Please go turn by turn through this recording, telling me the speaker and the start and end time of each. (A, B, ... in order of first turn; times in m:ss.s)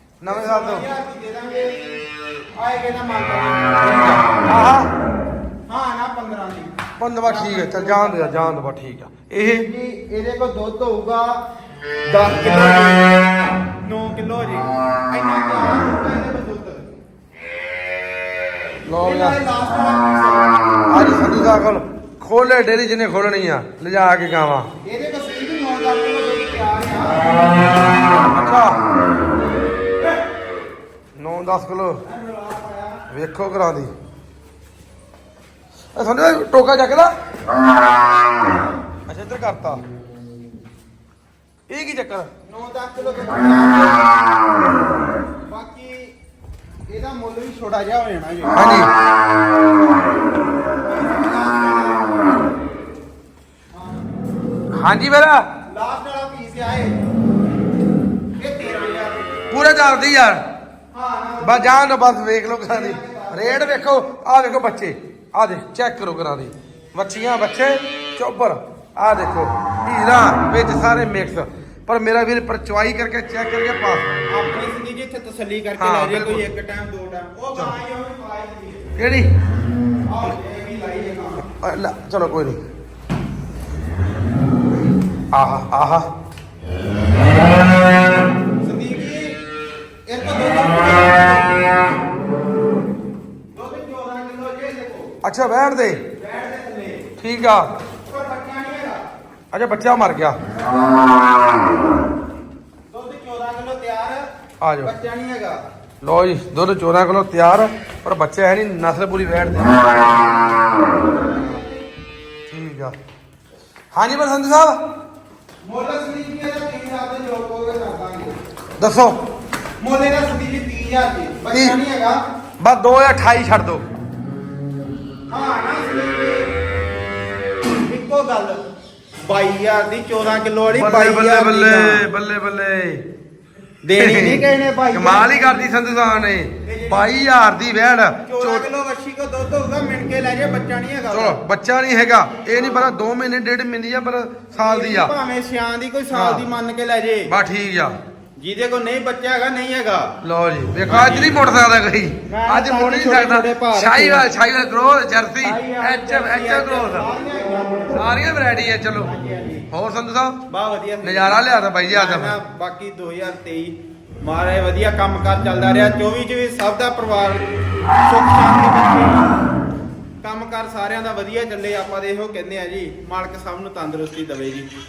0:00.2-0:00.8 A
0:00.3-0:01.9 B
0:02.6-0:04.4 B
0:04.5-0:04.9 A
0:05.7-0:06.7 B
0:07.0-0:09.7 A
0:07.2-0:08.5 B
0:09.4-0:11.4 B
0:12.1-0:13.2 B
0:13.8-0:16.9 B
0:18.9-0:19.4 A
0:19.0-0:20.5 B
0:20.9-0:24.7 A
0:24.8-0:27.9 B
0:28.2-0:28.8 A
0:31.2-0:32.0 A
0:32.0-0:33.0 B
0:33.1-0:33.9 A
0:36.0-0:37.1 A
0:38.4-0:38.8 B
0:39.1-0:39.8 A
0:41.7-0:42.3 A
0:42.4-0:44.2 B
0:45.5-0:46.1 B
0:46.9-0:48.8 B
0:48.5-0:48.9 A
0:50.8-0:52.3 B
0:53.7-0:54.1 B
0:54.7-0:55.4 A
0:55.7-0:57.0 B
0:58.4-0:59.4 B
0:59.5-1:00.4 A
1:00.9-1:01.8 B
1:01.4-1:14.2 A
1:02.6-1:03.9 B
1:14.3-1:18.9 B
1:15.8-1:16.5 A
1:19.0-1:19.3 A
1:20.1-1:21.5 B
1:21.6-1:22.6 A
1:25.3-1:26.1 A
1:28.6-1:29.4 B
1:30.1-1:31.8 B
1:33.5-1:35.2 B
1:35.2-1:36.0 A
1:36.1-1:37.1 B
1:37.2-1:37.7 A
1:38.1-1:39.0 B
1:39.5-1:40.4 A
1:42.9-1:44.3 B
1:44.6-1:44.9 A
1:44.8-1:45.6 B
1:46.0-1:50.3 A
1:50.9-1:51.9 B
1:52.5-1:53.0 A
1:53.9-1:54.8 A
1:55.6-1:58.4 B
1:58.8-1:59.2 A
1:59.8-2:02.2 B
2:01.5-2:01.8 A
2:02.6-2:03.8 A
2:05.3-2:06.5 B
2:07.9-2:08.6 B
2:09.3-2:12.1 B
2:10.7-2:13.0 A
2:13.8-2:15.7 B
2:14.0-2:18.7 A
2:16.6-2:17.2 B
2:18.3-2:21.4 B
2:21.1-2:25.1 A
2:22.4-2:23.0 B
2:24.5-2:27.3 B
2:26.1-2:26.4 A
2:27.3-2:28.0 A
2:28.4-2:30.1 B
2:30.2-2:37.1 A
2:30.9-2:31.4 B
2:32.3-2:34.3 B
2:35.4-2:38.2 B
2:37.9-2:39.1 A
2:39.0-2:39.7 B
2:39.7-2:40.4 A
2:40.5-2:47.5 B
2:41.0-2:42.4 A
2:48.0-2:49.4 B
2:50.2-2:54.7 B